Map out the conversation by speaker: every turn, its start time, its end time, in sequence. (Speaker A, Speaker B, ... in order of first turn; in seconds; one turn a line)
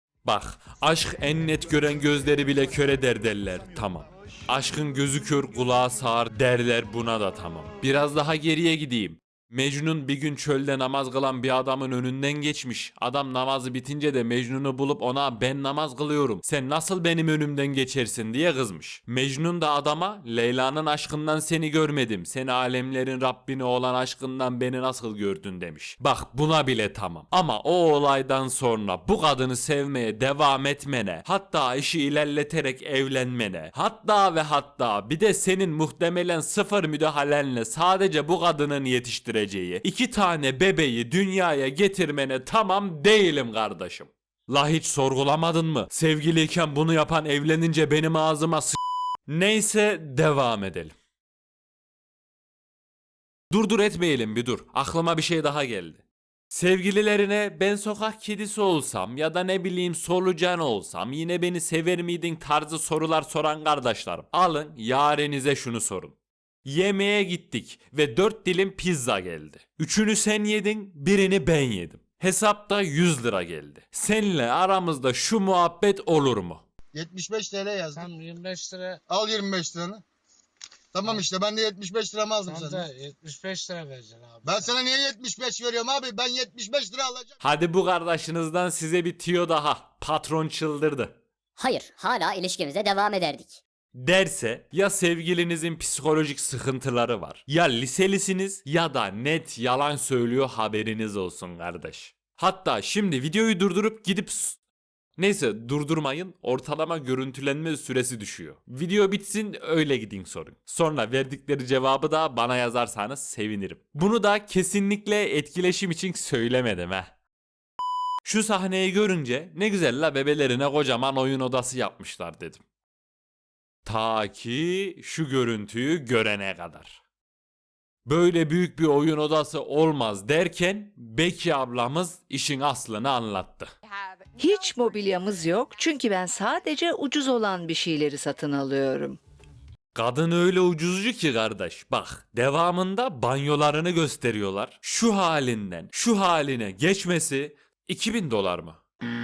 Speaker A: 0.2-50.9
Speaker A: 53.5-76.7
Speaker B: 76.9-78.0
Speaker C: 77.9-79.0
Speaker B: 79.1-80.0
Speaker B: 80.9-82.8
Speaker C: 82.4-84.7
Speaker B: 84.5-87.3
Speaker A: 87.4-91.2
Speaker D: 91.6-93.6
Speaker A: 93.9-104.6
Speaker A: 105.2-117.1
Speaker A: 118.2-122.6
Speaker A: 123.8-127.0
Speaker A: 128.1-133.7
Speaker E: 134.4-139.2
Speaker A: 139.9-148.8